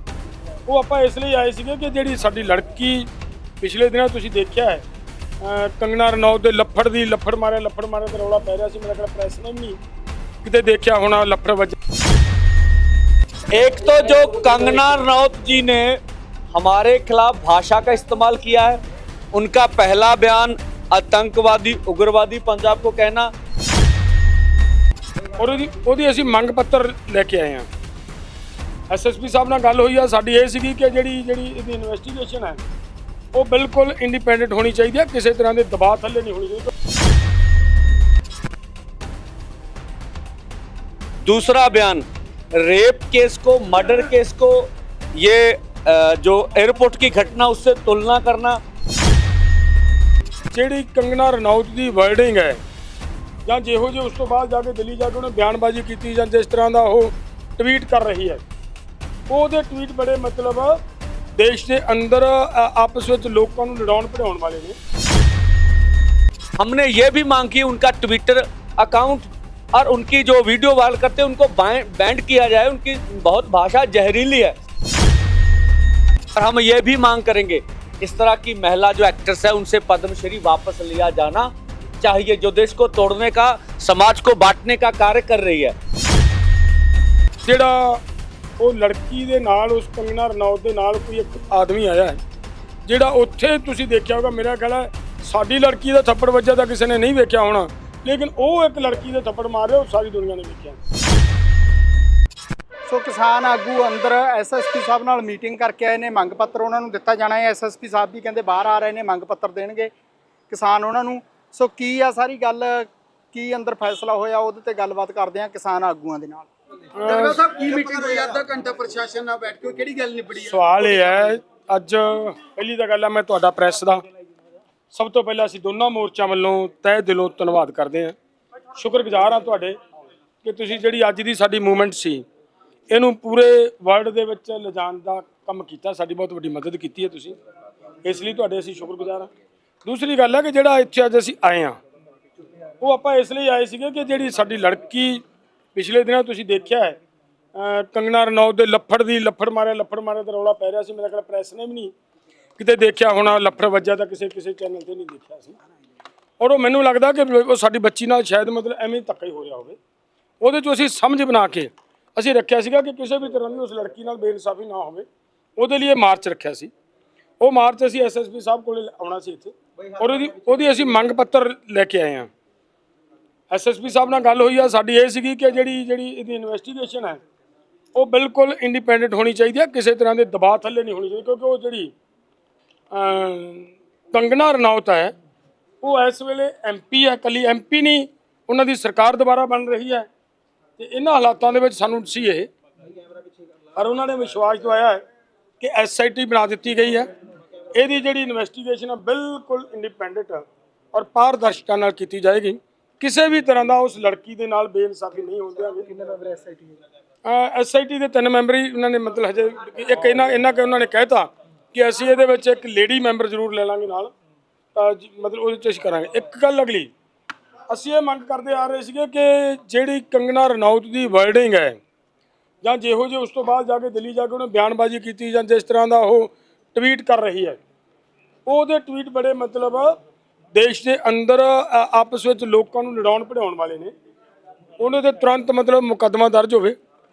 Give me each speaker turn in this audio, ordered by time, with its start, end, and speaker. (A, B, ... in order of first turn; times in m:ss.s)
0:00.7-0:03.1 A
0:03.6-0:04.8 A
0:05.4-0:09.8 A
0:10.4-0:11.8 A
0:13.5-0:16.0 B
0:16.5-0:18.8 B
0:19.3-0:23.3 B
0:25.4-0:27.7 A
0:28.9-0:32.6 A
0:33.3-0:36.7 A
0:41.2-0:42.0 B
0:42.6-0:48.6 B
0:50.5-0:52.6 A
0:53.5-0:58.4 A
0:59.3-1:00.8 A
1:01.4-1:04.8 A
1:06.6-1:14.6 B
1:16.4-1:25.8 B
1:27.4-1:28.0 A
1:28.6-1:32.2 A
1:32.9-1:40.8 A
1:42.8-1:49.9 C
1:50.5-1:56.5 C
1:57.0-1:57.4 A
1:57.0-2:01.2 D
1:57.8-1:58.2 C
2:00.4-2:04.0 A
2:04.9-2:08.2 A
2:08.8-2:09.8 A
2:10.4-2:12.2 A
2:12.9-2:17.4 A
2:18.0-2:19.3 A
2:19.8-2:21.8 A
2:22.8-2:25.2 A
2:25.7-2:27.0 A
2:27.6-2:31.9 A
2:32.6-2:35.6 A
2:36.4-2:39.8 A
2:40.4-2:45.1 A
2:45.6-2:46.7 A
2:47.4-2:52.3 A
2:53.5-2:57.2 A
2:58.0-3:01.9 A
3:02.9-3:05.1 A
3:05.8-3:10.1 A
3:10.8-3:12.5 A
3:13.8-3:15.0 A
3:15.6-3:17.1 A
3:17.8-3:25.9 A
3:26.0-3:26.7 C
3:27.2-3:34.1 A
3:34.8-3:36.9 A
3:37.7-3:41.8 A
3:42.6-3:47.6 A
3:48.5-3:50.0 A
3:50.5-3:53.9 A
3:54.8-3:56.8 A